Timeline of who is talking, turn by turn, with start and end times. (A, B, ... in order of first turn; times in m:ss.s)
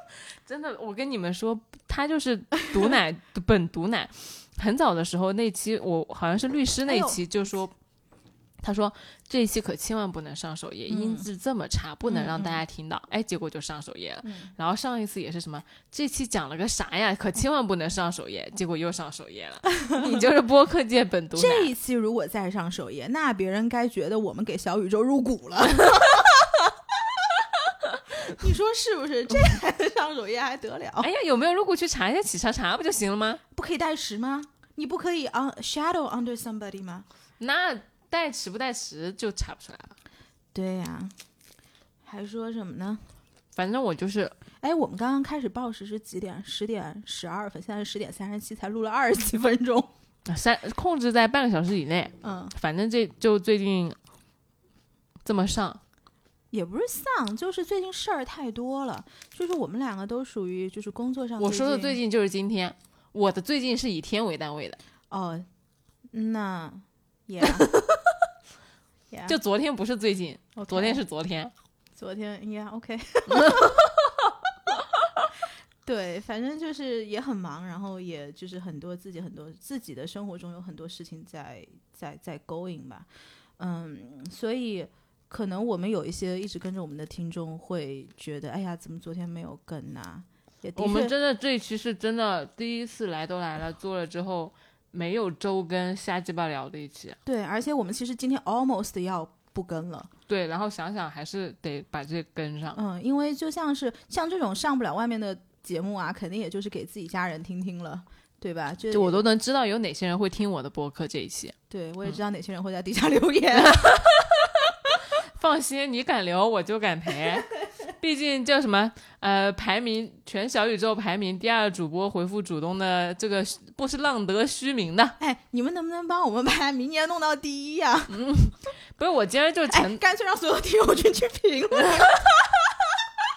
0:00.4-0:07.7 A
0:06.9-0:07.2 B
0:08.6-0:21.7 A
0:10.9-0:11.2 B
0:12.0-0:12.6 B
0:14.2-0:14.5 B
0:19.8-0:20.2 B
0:21.3-0:27.4 B
0:28.1-0:31.1 B
0:31.0-0:33.4 A
0:33.5-0:37.1 B
0:37.4-0:40.0 A
0:40.5-0:41.1 B
0:42.0-0:43.0 B
0:43.5-0:44.3 A
0:44.6-0:49.9 B
0:50.2-0:54.0 A
0:52.2-0:52.5 B
0:55.2-0:55.8 A
0:56.5-1:02.0 B
1:01.4-1:04.8 A
1:05.1-1:05.5 B
1:06.1-1:07.7 B
1:07.4-1:08.0 A
1:09.3-1:11.5 A
1:10.6-1:11.0 B
1:11.9-1:13.8 B
1:13.3-1:13.9 A
1:15.8-1:23.1 B
1:23.6-1:31.1 B
1:30.8-1:37.2 A
1:37.2-1:40.1 B
1:40.3-1:42.8 A
1:42.8-1:49.2 B
1:48.9-1:51.5 A
1:51.7-1:54.0 B
1:53.5-2:05.2 A
2:05.2-2:08.1 B
2:08.1-2:10.0 A
2:09.7-2:13.1 B